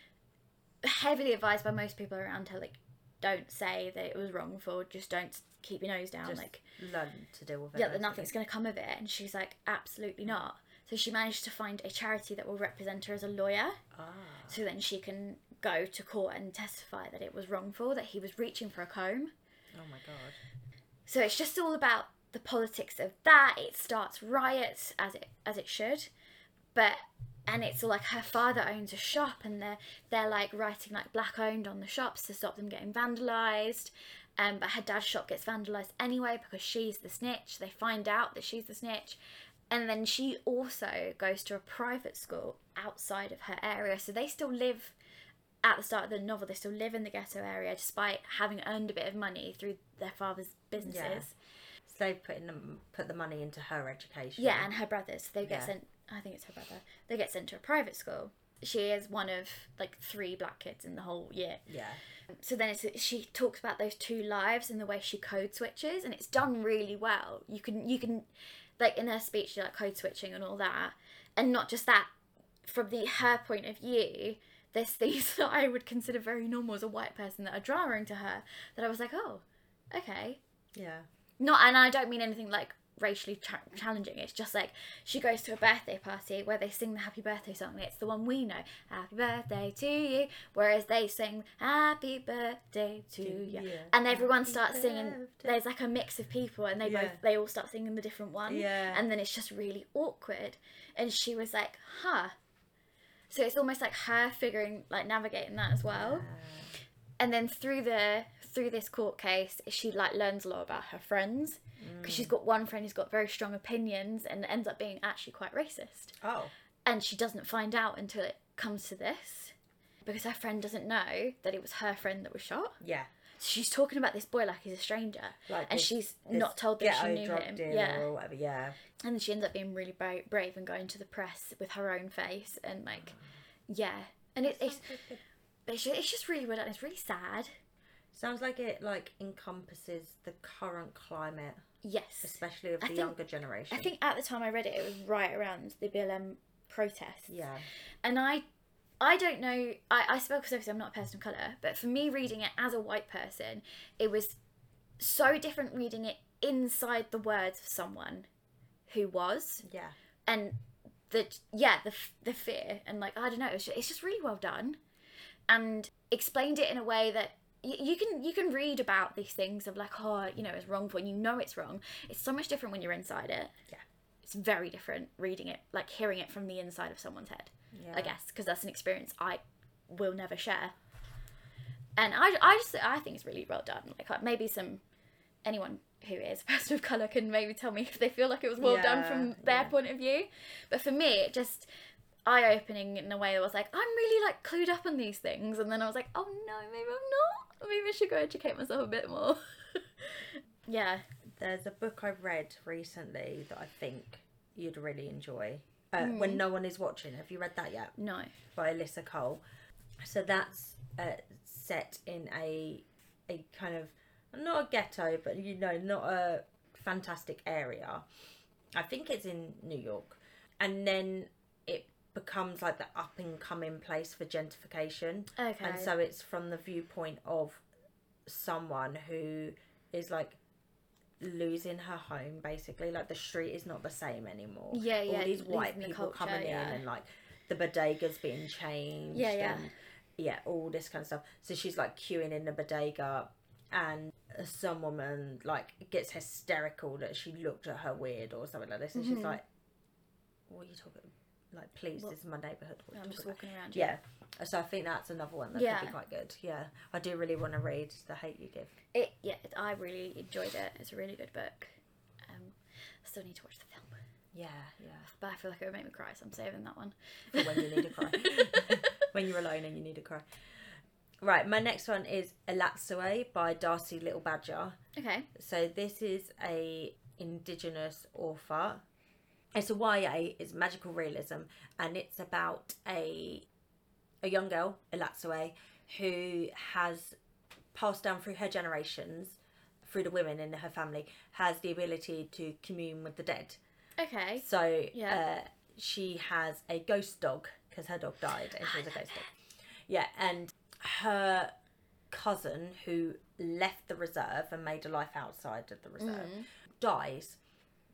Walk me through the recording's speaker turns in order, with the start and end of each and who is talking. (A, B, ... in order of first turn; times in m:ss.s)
0:00.8-0:06.6 A
0:06.2-0:08.3 B
0:07.8-0:13.8 A
0:13.9-0:14.6 B
0:14.5-0:19.3 A
0:19.8-0:20.4 B
0:21.1-0:26.1 A
0:26.7-0:39.2 A
0:39.7-0:45.0 A
0:45.6-0:51.3 A
0:50.8-0:51.3 B
0:51.8-0:54.7 B
0:54.4-1:01.6 A
0:55.4-0:55.7 B
1:01.7-1:02.0 B
1:02.4-1:08.3 A
1:08.8-1:12.1 A
1:12.6-1:20.4 A
1:20.8-1:21.1 B
1:21.4-1:42.4 A
1:33.2-1:35.6 B
1:36.8-1:37.2 B
1:38.5-1:39.0 B
1:43.3-1:46.2 A
1:45.9-1:46.7 B
1:47.2-1:56.2 A
1:51.8-1:52.3 B
1:56.2-1:56.5 B
1:56.8-1:59.5 A
2:00.0-2:02.8 A
2:02.8-2:03.1 B
2:03.4-2:08.1 A
2:05.5-2:08.8 B
2:09.0-2:13.2 A
2:13.7-2:14.8 A
2:14.4-2:15.2 B
2:15.7-2:17.5 A
2:18.1-2:21.6 B
2:21.8-2:23.1 A
2:22.2-2:23.9 B
2:23.7-2:27.3 A
2:27.3-2:27.6 B
2:28.0-2:28.4 A
2:29.0-2:34.4 A
2:35.0-2:38.3 A
2:38.9-2:39.6 A
2:39.6-2:40.0 B
2:40.3-2:44.8 A
2:45.5-2:53.5 A
2:54.2-3:00.7 A
2:57.7-2:58.1 B
3:02.0-3:04.8 A
3:05.4-3:11.7 A
3:08.6-3:09.7 B
3:12.2-3:21.0 A
3:21.4-3:27.9 B
3:26.0-3:26.4 A
3:28.0-3:28.3 A
3:28.6-3:29.4 B
3:30.0-3:38.0 B
3:38.8-3:47.6 B
3:45.4-3:45.9 A
3:48.3-3:50.4 B
3:51.2-4:09.4 B
3:54.7-3:56.8 A
3:59.1-3:59.7 A
4:09.0-4:09.4 A
4:10.5-4:18.8 B
4:12.9-4:14.0 A
4:15.5-4:16.0 A
4:18.9-4:24.0 A
4:24.3-4:25.1 B
4:25.0-4:28.7 A
4:27.3-4:30.7 B
4:31.2-4:34.8 B
4:35.0-4:35.3 A
4:35.4-4:38.8 B
4:39.5-4:43.5 B
4:44.2-4:47.2 B
4:47.7-4:53.6 B
4:54.0-4:55.2 A
4:54.4-4:59.3 B
4:58.6-4:59.3 A
4:59.9-5:01.5 B
5:02.1-5:07.4 B
5:06.0-5:06.5 A